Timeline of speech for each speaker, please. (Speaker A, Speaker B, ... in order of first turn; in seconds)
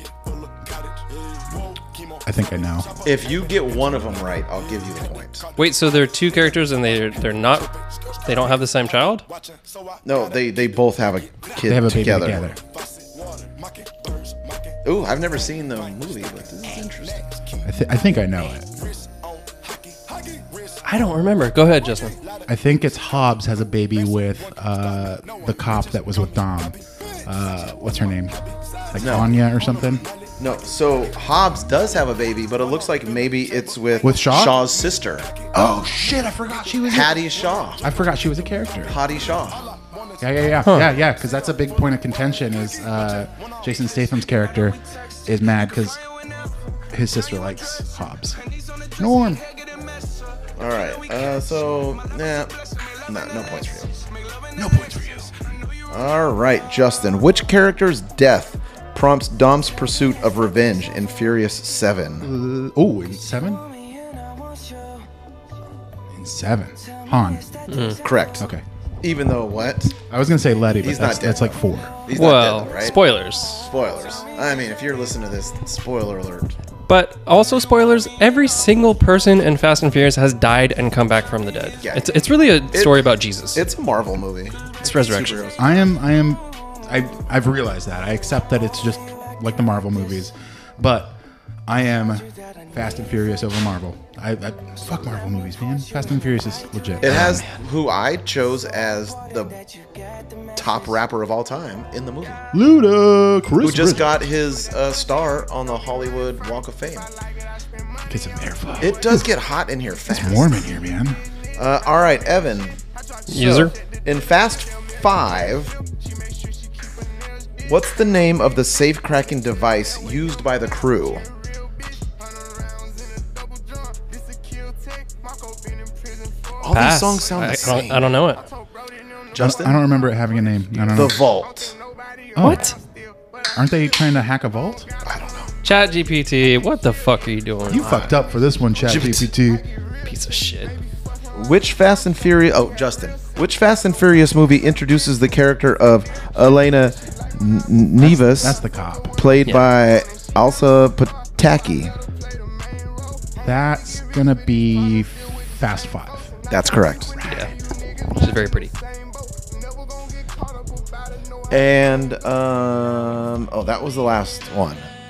Speaker A: 2.2-2.9, 11.7-12.6, 17.6-18.7, 22.5-28.4, 28.9-30.0, 34.0-34.6, 35.5-37.1, 37.8-39.0, 40.2-46.0, 46.9-48.4, 49.0-49.4, 54.5-55.3, 62.2-63.6, 66.1-67.4, 70.1-71.9, 85.6-97.4, 102.5-104.1, 108.1-109.3, 110.1-111.2, 129.4-131.2, 132.3-132.6, 133.6-134.9, 137.7-139.6, 148.0-149.1, 153.4-156.3, 157.2-157.5
Speaker B: 3.0-5.4, 10.0-12.4, 14.8-17.4, 28.9-29.3, 30.4-35.5, 36.9-37.8, 38.9-39.7, 50.6-52.5, 53.1-53.9, 55.9-62.3, 68.0-68.4, 69.0-70.0, 70.8-73.0, 73.6-76.5, 81.8-82.1, 82.7-83.0, 83.5-85.7, 97.0-99.6, 100.5-102.4, 103.6-107.1, 108.8-110.7, 111.6-112.8, 113.3-115.7, 117.7-121.2, 126.6-128.1, 129.3-129.8, 130.9-131.7, 135.0-135.5, 137.8-138.1, 138.8-139.3, 141.3-148.6, 149.2-151.9, 156.5-157.1, 161.5-164.8
Speaker C: 5.6-7.7, 8.2-9.2, 20.8-22.1, 40.6-40.9, 67.7-68.0, 72.1-73.7, 76.9-83.6, 84.8-85.4, 113.3-113.7, 126.7-128.4, 132.4-132.8, 135.6-137.9, 140.0-140.7, 157.2-157.5, 158.2-158.7